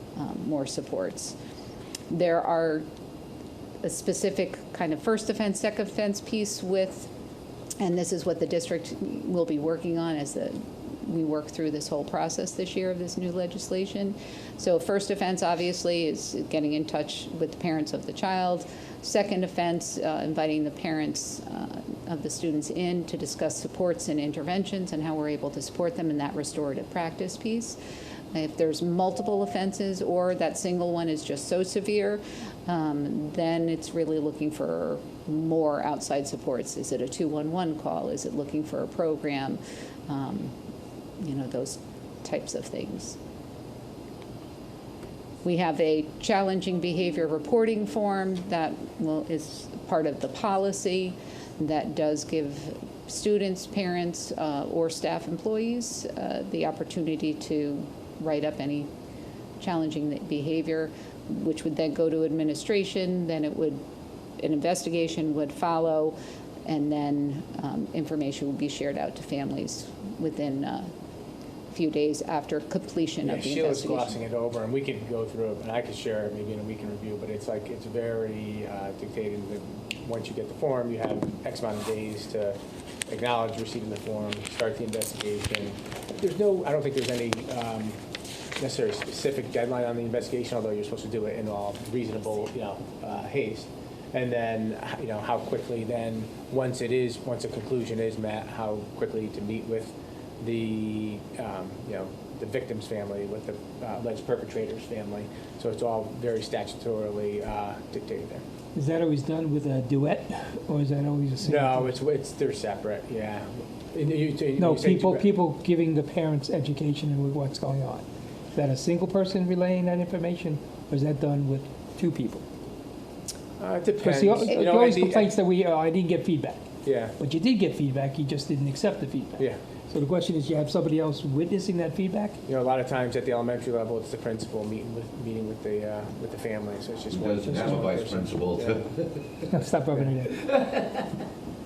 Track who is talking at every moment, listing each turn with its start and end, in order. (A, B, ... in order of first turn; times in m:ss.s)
0:00.2-0:01.4 A
0:02.1-0:02.8 A
0:03.8-0:07.1 A
0:07.8-0:27.8 A
0:28.3-0:40.5 A
0:41.2-0:43.2 A
0:45.4-0:58.9 A
0:59.6-1:03.8 A
1:04.4-1:10.9 A
1:11.7-1:14.2 A
1:13.2-1:28.0 B
1:28.6-1:48.4 B
1:48.7-1:51.9 C
1:51.4-1:55.3 B
1:54.6-2:02.4 C
2:03.6-2:05.3 B
2:04.0-2:06.6 C
2:06.8-2:07.2 B
2:07.2-2:12.4 C
2:12.5-2:18.9 B
2:17.1-2:19.3 D
2:17.5-2:17.8 C
2:19.5-2:20.4 C